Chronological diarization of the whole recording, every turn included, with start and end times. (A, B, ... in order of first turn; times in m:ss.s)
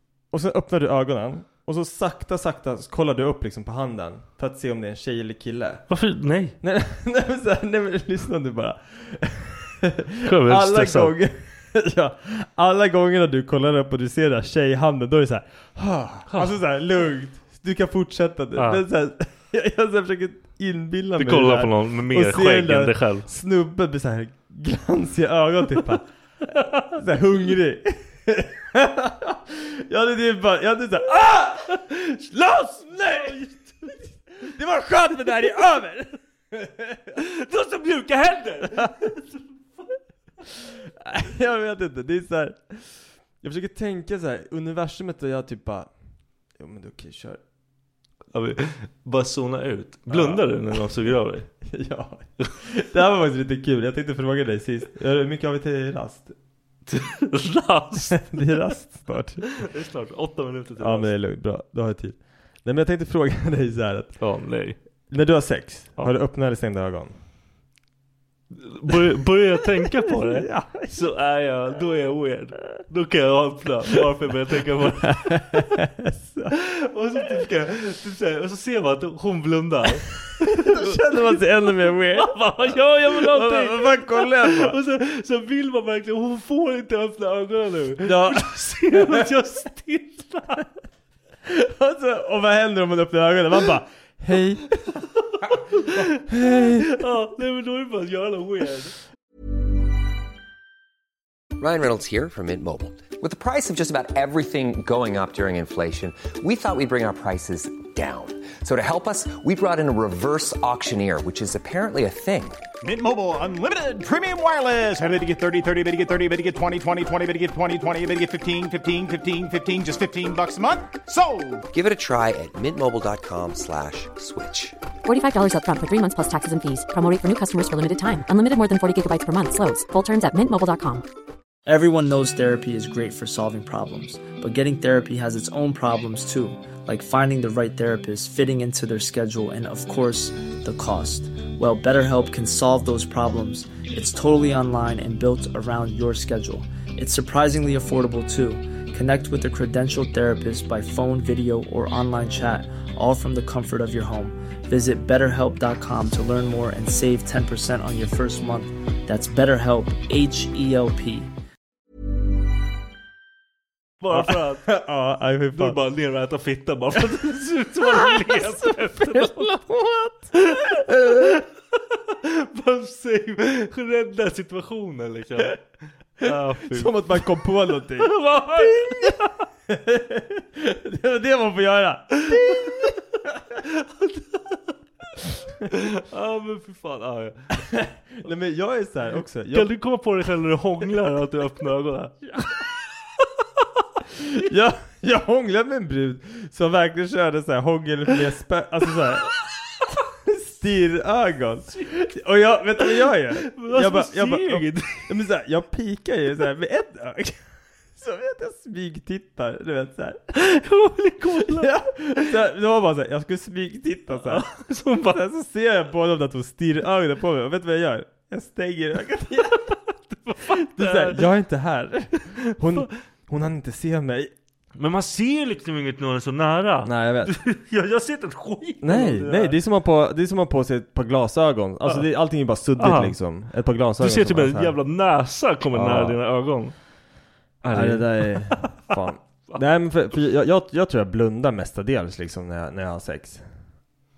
0:00.3-0:05.8 A
0:05.9-0:06.5 B
0:06.6-0:26.0 A
0:10.2-0:11.1 B
0:18.6-0:18.8 B
0:21.2-0:23.3 B
0:26.5-0:27.0 B
0:27.0-0:31.9 A
0:31.7-0:33.9 B
0:32.8-0:33.6 A
0:34.4-0:37.2 A
0:37.2-0:39.9 B
0:38.7-0:39.1 A
0:41.0-0:42.9 A
0:43.4-0:45.9 A
0:46.6-0:47.4 A
0:48.3-0:51.5 B
0:50.1-0:50.4 A
0:51.6-0:56.3 A
0:56.9-0:58.3 B
0:58.1-0:59.5 A
0:59.5-1:01.1 B
1:00.8-1:04.1 A
1:04.2-1:04.8 B
1:05.1-1:07.1 A
1:08.5-1:15.7 B
1:09.8-1:10.9 A
1:15.0-1:16.5 A
1:16.5-1:21.0 B
1:20.1-1:24.8 A
1:22.2-1:30.6 B
1:28.0-1:29.2 A
1:31.4-1:34.8 A
1:35.0-1:38.9 B
1:35.4-1:37.0 A
1:41.6-1:52.6 C
1:52.8-2:01.6 D
2:01.7-2:04.8 C
2:05.0-2:11.0 E
2:11.7-2:41.3 F
2:44.0-2:44.6 B
2:44.1-2:45.8 A
2:45.5-2:49.5 B
2:47.8-2:51.3 A
2:50.3-2:55.6 B
2:56.2-2:57.2 B
2:56.2-2:59.2 A
2:58.0-2:59.4 B
2:59.7-3:02.9 A
3:02.2-3:02.9 B
3:03.5-3:04.6 B
3:05.7-3:07.5 B
3:07.6-3:09.7 A
3:09.5-3:12.6 B
3:14.2-3:19.4 A
3:20.2-3:27.4 A
3:21.7-3:22.0 B
3:23.0-3:25.1 B
3:27.9-3:30.3 A
3:30.3-3:32.3 B
3:31.4-3:34.4 A
3:34.1-3:35.2 B
3:35.1-3:39.7 A
3:39.6-3:41.2 B
3:40.4-3:44.3 A
3:42.4-3:42.9 B
3:44.8-3:49.6 B
3:46.8-3:47.3 A
3:48.8-3:54.8 A
3:52.8-3:53.1 B
3:54.0-3:56.7 B
3:55.7-3:56.2 A
3:57.6-4:03.4 A
3:57.6-3:58.9 B